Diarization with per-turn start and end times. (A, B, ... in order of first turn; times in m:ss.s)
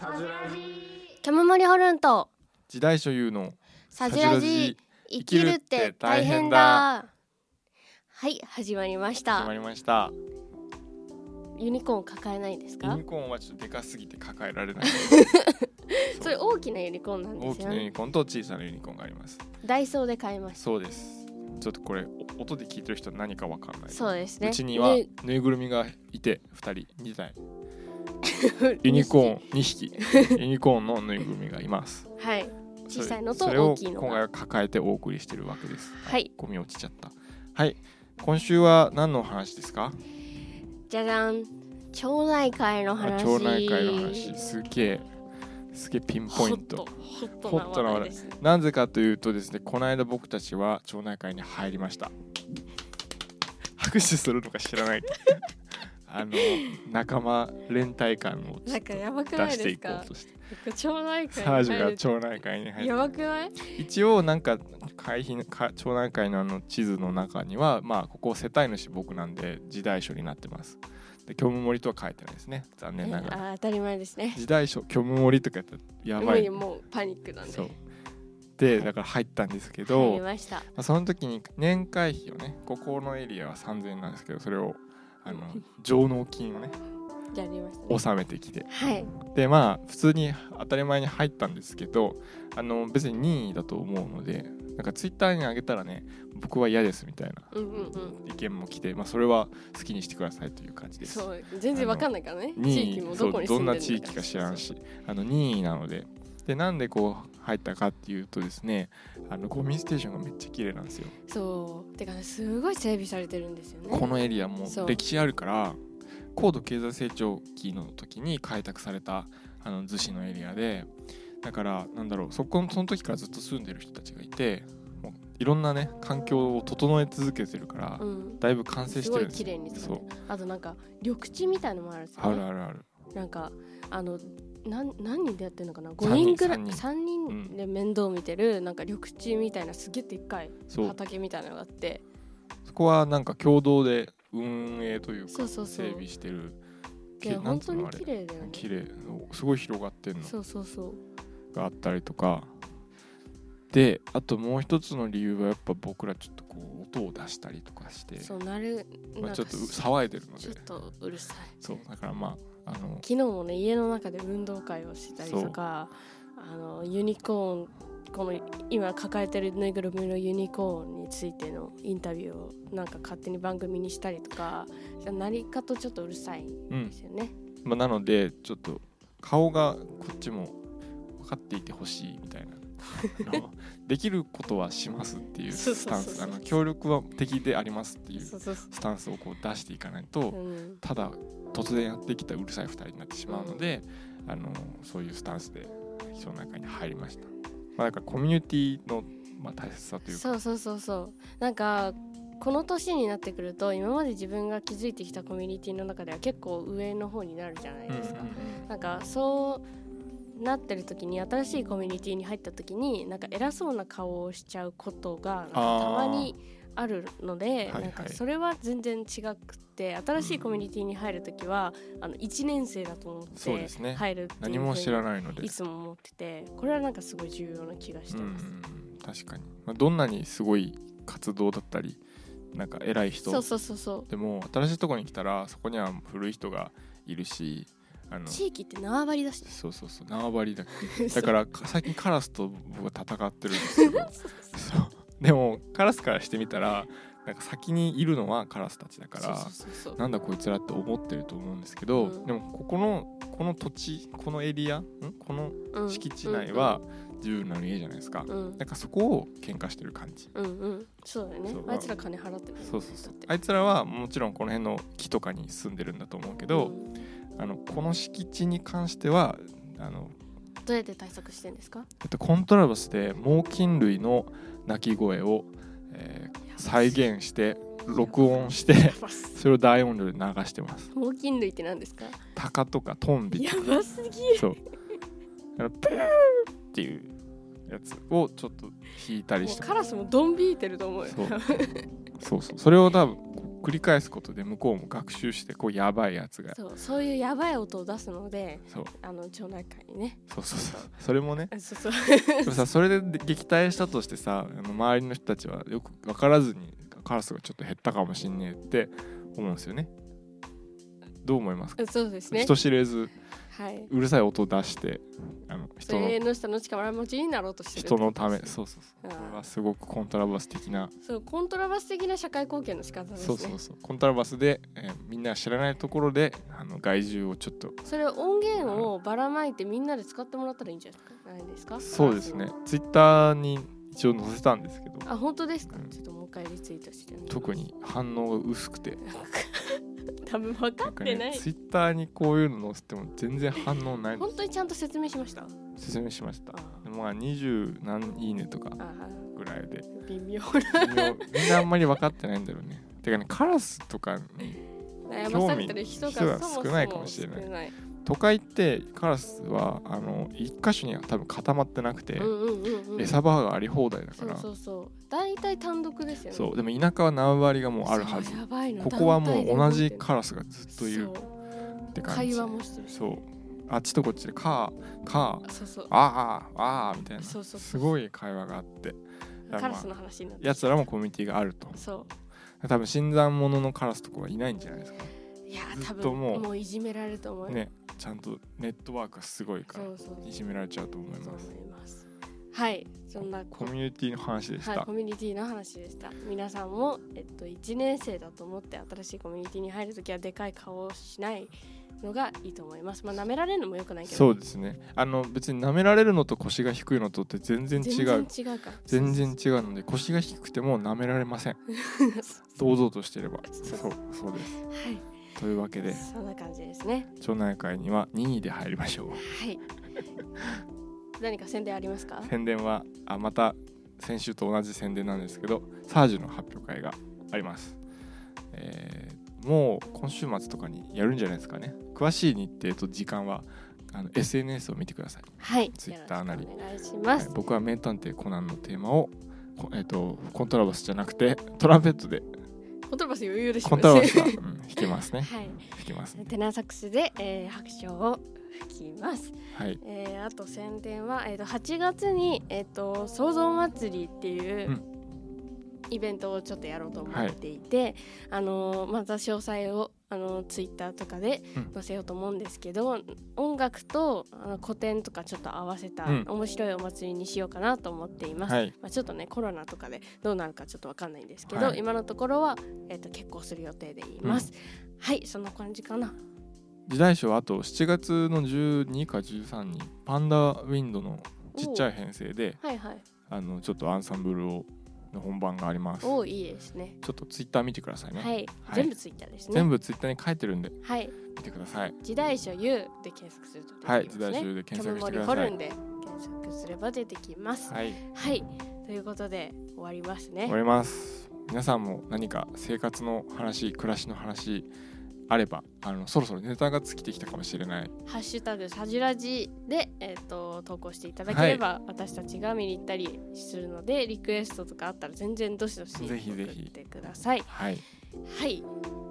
0:01.2-0:02.3 A
0:02.7-0:06.9 B
0:03.9-0:07.1 A
0:08.1-0:09.5 A
0:09.3-0:10.2 B
0:11.6-0:13.0 A
0:12.8-0:15.2 B
0:14.8-0:17.9 A
0:17.4-0:19.4 B
0:19.6-0:20.6 A
0:20.6-0:27.4 B
0:23.9-0:25.1 A
0:28.2-0:29.4 A
0:28.8-0:32.1 B
0:30.0-0:30.4 A
0:32.2-0:34.3 A
0:32.9-0:40.0 B
0:36.0-0:36.3 A
0:40.9-0:44.4 A
0:43.0-0:45.1 B
0:45.7-0:52.1 B
0:46.3-0:48.4 A
0:53.8-0:55.4 B
0:56.1-1:00.4 B
0:58.7-1:02.1 A
1:01.3-1:03.1 B
1:02.8-1:03.8 A
1:03.7-1:13.4 B
1:13.0-1:14.4 A
1:14.3-1:16.6 B
1:16.2-1:17.7 A
1:17.4-1:17.8 B
1:18.6-1:26.8 B
1:19.9-1:20.7 A
1:25.3-1:25.6 A
1:27.3-1:28.0 A
1:27.9-1:28.7 B
1:28.7-1:29.1 A
1:29.2-1:51.1 B
1:37.5-1:38.2 A
1:41.0-1:44.7 A
1:51.3-1:54.1 A
1:53.9-1:55.8 B
1:54.6-1:55.0 A
1:56.4-2:00.9 B
2:01.4-2:10.1 B
2:08.0-2:12.5 A
2:12.2-2:12.9 B
2:13.1-2:22.0 A
2:16.0-2:17.6 B
2:20.7-2:21.0 B
2:22.7-2:26.6 B
2:25.3-2:26.0 A
2:27.2-2:30.3 B
2:27.2-2:28.7 A
2:30.2-2:31.0 A
2:31.5-2:32.5 B
2:33.7-2:38.3 B
2:38.2-2:39.9 A
2:39.2-2:40.6 B
2:40.4-2:41.6 A
2:41.6-2:43.1 B
2:43.0-2:57.3 A
2:45.2-2:45.6 B
2:57.6-3:00.6 B
3:01.2-3:20.4 B
3:03.0-3:03.4 A
3:05.5-3:06.6 A
3:08.2-3:08.7 A
3:10.3-3:10.8 A
3:13.3-3:13.7 A
3:20.1-3:29.7 A
3:27.9-3:28.7 B
3:30.4-3:48.5 A
3:35.5-3:36.3 B
3:37.7-3:38.2 B
3:40.2-3:40.6 B
3:43.4-3:45.5 B
3:48.1-3:52.0 B
3:52.5-3:53.5 B
3:53.3-3:54.1 A
3:54.1-3:58.4 B
3:58.3-3:59.6 A
3:59.5-4:20.3 B
4:00.8-4:01.4 A
4:03.5-4:04.6 A
4:09.2-4:10.0 A
4:12.0-4:12.3 A
4:15.7-4:16.8 A
4:18.3-4:18.6 A
4:20.3-4:23.3 A
4:21.5-4:21.9 B
4:22.6-4:26.8 B
4:26.5-4:27.0 A
4:27.4-4:30.2 B
4:30.6-4:31.9 A
4:32.0-4:40.9 B
4:36.5-4:37.1 A
4:37.9-4:39.4 A
4:40.9-4:42.2 A
4:42.4-4:43.7 B
4:43.3-4:44.6 A
4:44.3-4:44.6 B
4:45.6-4:47.2 B
4:47.7-4:49.7 B
4:49.4-4:51.9 A
4:51.0-4:51.4 B
4:52.2-4:56.6 B
4:56.5-5:00.9 A
5:00.3-5:01.5 B
5:01.5-5:02.6 A
5:02.4-5:09.9 B
5:11.2-5:13.1 B
5:11.8-5:12.5 A
5:13.5-5:13.9 A
5:13.9-5:16.2 B
5:15.9-5:19.5 A
5:17.8-5:20.9 B
5:21.0-5:23.6 A
5:23.2-5:27.8 B
5:27.8-5:32.5 A
5:28.6-5:28.9 B
5:31.8-5:35.1 B
5:35.0-5:37.6 A
5:35.7-5:36.0 B
5:37.3-5:39.0 B
5:39.0-5:41.5 A
5:40.8-5:44.4 B
5:44.1-5:45.6 A
5:45.8-5:48.8 B
5:46.5-5:46.8 A
5:48.8-5:49.3 A
5:49.4-5:49.9 B
5:49.9-5:51.7 A
5:50.7-5:54.6 B
5:55.1-5:57.7 A
5:55.2-5:57.5 B
5:58.0-6:02.4 B
6:02.2-6:03.2 A
6:03.0-6:04.5 B
6:04.2-6:06.5 A
6:06.3-6:11.2 B
6:07.8-6:10.1 A
6:10.7-6:11.3 A
6:11.9-6:19.0 B
6:12.1-6:13.0 A
6:15.4-6:15.9 A
6:17.2-6:18.0 A
6:19.5-6:20.9 A
6:19.5-6:21.8 B
6:21.8-6:22.1 A
6:22.6-6:25.1 B
6:25.5-6:27.6 A
6:25.7-6:26.5 B
6:27.5-6:31.5 B
6:29.7-6:30.3 A
6:31.2-6:33.8 A
6:33.2-6:34.9 B
6:34.6-6:44.4 A
6:44.0-6:48.3 B
6:47.8-6:49.4 A
6:48.9-6:51.6 B
6:51.8-6:52.6 A
6:52.6-6:54.6 B
6:53.5-6:53.9 A
6:54.6-6:55.1 A
6:55.4-6:56.1 B
6:55.9-6:57.1 A
6:57.2-6:59.2 B
6:59.2-6:59.6 A
7:01.2-7:02.3 A
7:02.2-7:07.8 B
7:08.5-7:16.5 B
7:15.4-7:17.4 A
7:17.1-7:22.3 B
7:22.9-7:34.8 A
7:23.6-7:26.3 B
7:29.5-7:29.8 B
7:35.9-7:56.2 A
7:37.1-7:37.4 B
7:48.4-7:48.7 B
7:51.5-7:51.8 B
7:54.2-7:54.5 B
7:56.9-8:02.6 B
8:01.6-8:01.9 A
8:02.6-8:03.0 A
8:03.3-8:06.2 B
8:06.0-8:07.0 A
8:07.0-8:08.9 B
8:08.2-8:09.7 A
8:09.5-8:10.8 B
8:10.8-8:11.2 A
8:11.3-8:12.0 B
8:12.0-8:20.6 A
8:13.8-8:15.6 B
8:17.7-8:18.0 B
8:20.5-8:24.7 B
8:25.3-8:27.9 B
8:28.0-8:37.6 A
8:31.3-8:31.6 B
8:36.0-8:36.7 B
8:37.5-8:37.8 B
8:38.3-8:38.7 A